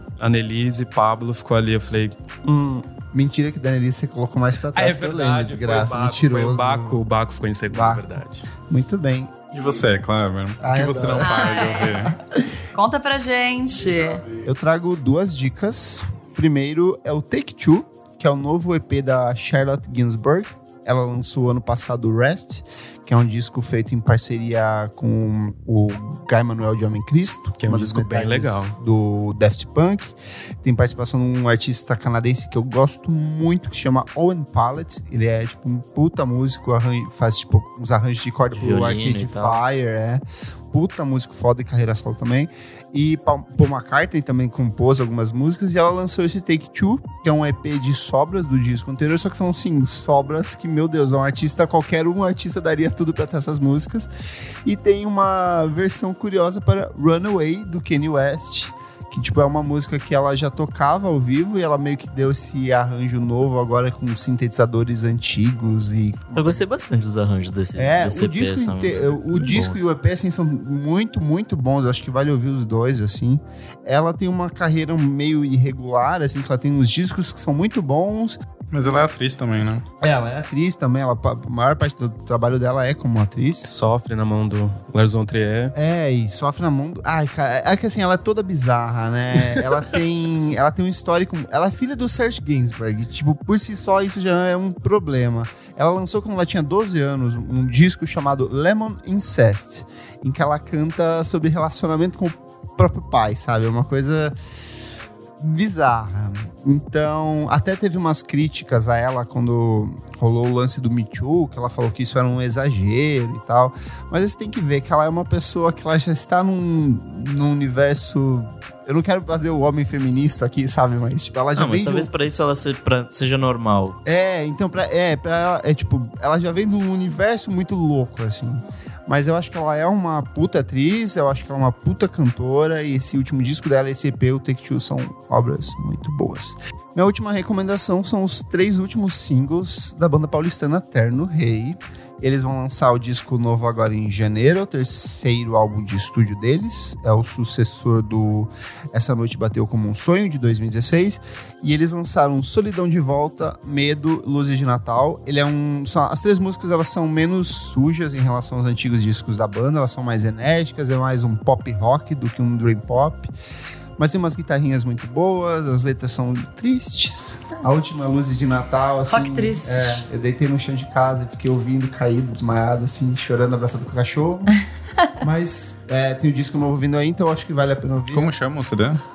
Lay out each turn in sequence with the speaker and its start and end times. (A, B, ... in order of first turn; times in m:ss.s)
0:00.2-0:02.8 A
0:03.1-0:07.0 B
0:04.7-0:08.4 A
0:07.7-0:08.0 B
0:08.7-0:09.8 B
0:09.5-0:12.2 C
0:10.6-0:12.6 B
0:11.2-0:12.0 D
0:12.7-0:14.2 D
0:13.7-0:54.1 B
0:27.6-0:28.7 A
0:38.5-0:39.6 E
0:54.6-1:06.6 B
1:06.3-1:09.8 E
1:07.8-1:18.4 B
1:18.7-1:19.8 C
1:20.0-1:23.7 B
1:23.6-1:25.7 A
1:25.7-1:44.3 B
1:45.4-2:02.1 B
2:01.5-2:04.0 E
2:04.0-2:43.3 B
2:44.0-2:54.5 B
2:49.1-2:50.0 D
2:55.2-2:58.3 B
2:58.1-2:59.0 C